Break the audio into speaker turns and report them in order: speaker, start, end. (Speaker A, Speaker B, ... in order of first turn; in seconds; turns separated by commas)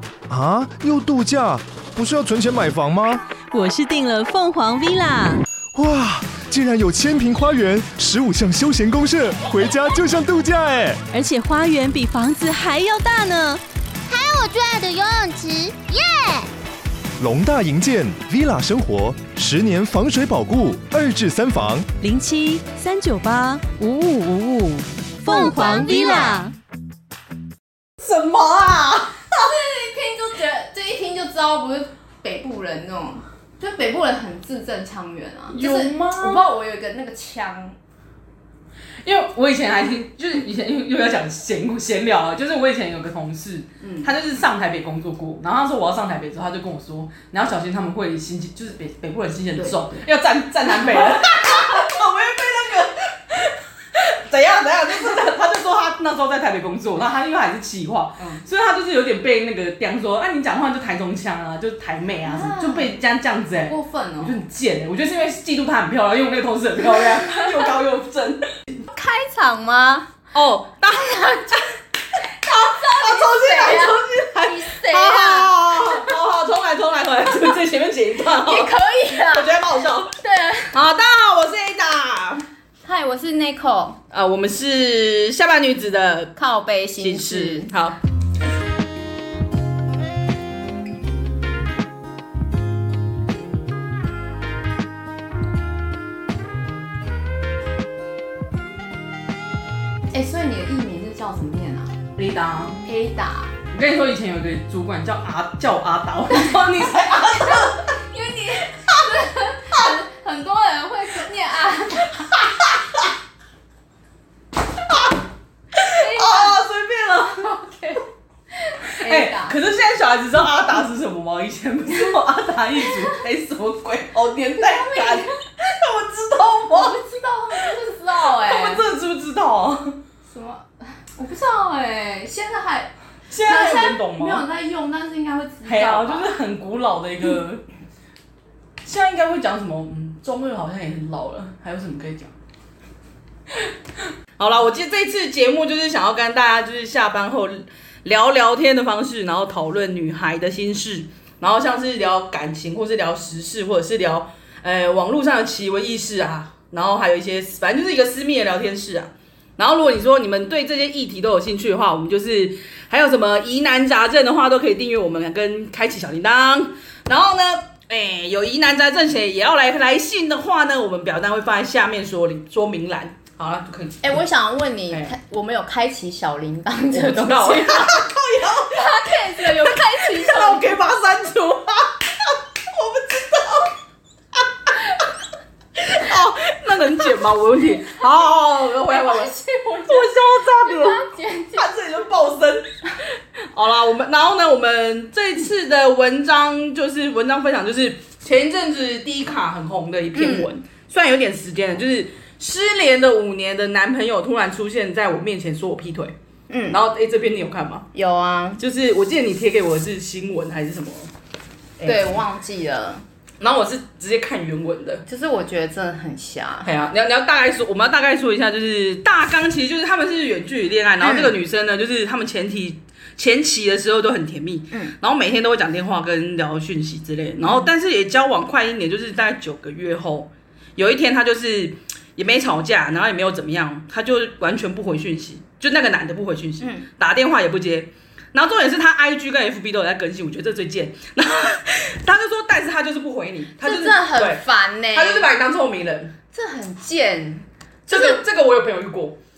Speaker A: 0.3-3.2, Speaker B: 3.5-5.4, Speaker A: 5.7-11.0, Speaker B: 11.1-13.6, Speaker C: 14.1-16.5, Speaker A: 17.2-21.9, Speaker B: 22.0-26.5, Speaker C: 25.3-26.4, Speaker D: 28.0-29.4, Speaker E: 29.4-37.8, Speaker D: 35.5-36.4, Speaker D: 39.0-68.8, Speaker E: 43.8-44.1, Speaker E: 50.8-51.6, Speaker E: 62.2-62.9, Speaker E: 63.7-64.4, Speaker E: 67.2-67.5, Speaker E: 68.9-70.1, Speaker D: 70.3-71.6, Speaker E: 70.9-71.6, Speaker E: 72.4-76.1, Speaker D: 72.5-80.2, Speaker E: 78.4-79.5, Speaker E: 80.2-80.8, Speaker D: 80.7-82.5, Speaker E: 82.8-84.0, Speaker D: 84.1-86.3, Speaker E: 86.4-87.7, Speaker D: 87.0-88.0, Speaker E: 100.1-102.0, Speaker D: 102.2-102.8, Speaker E: 102.8-103.5, Speaker D: 103.7-107.8, Speaker E: 106.3-112.5, Speaker D: 115.8-117.5, Speaker E: 115.9-116.6, Speaker E: 117.4-118.0, Speaker E: 118.5-119.5, Speaker D: 119.0-127.0, Speaker E: 122.8-123.2, Speaker E: 124.6-125.4, Speaker E: 126.7-128.8, Speaker D: 128.4-130.0, Speaker E: 130.3-136.3, Speaker D: 133.3-134.4, Speaker D: 135.7-137.6, Speaker D: 138.8-142.3, Speaker D: 144.4-174.2, Speaker E: 174.0-178.0, Speaker D: 176.9-183.7, Speaker E: 178.7-180.7, Speaker D: 184.4-184.7, Speaker D: 185.8-189.3, Speaker E: 188.9-191.7, Speaker D: 189.9-191.0, Speaker D: 191.6-192.7, Speaker D: 193.5-206.2, Speaker E: 200.2-200.5, Speaker E: 206.5-206.8, Speaker D: 206.7-207.9, Speaker E: 207.9-208.6, Speaker D: 208.6-211.1, Speaker D: 211.8-212.2, Speaker E: 211.8-213.0, Speaker D: 213.4-215.0, Speaker E: 215.1-216.7, Speaker D: 216.7-244.4, Speaker E: 221.0-221.3, Speaker E: 227.4-227.7, Speaker E: 236.6-236.9, Speaker E: 243.6-245.3, Speaker D: 244.9-246.1, Speaker E: 246.3-248.2, Speaker D: 247.9-249.2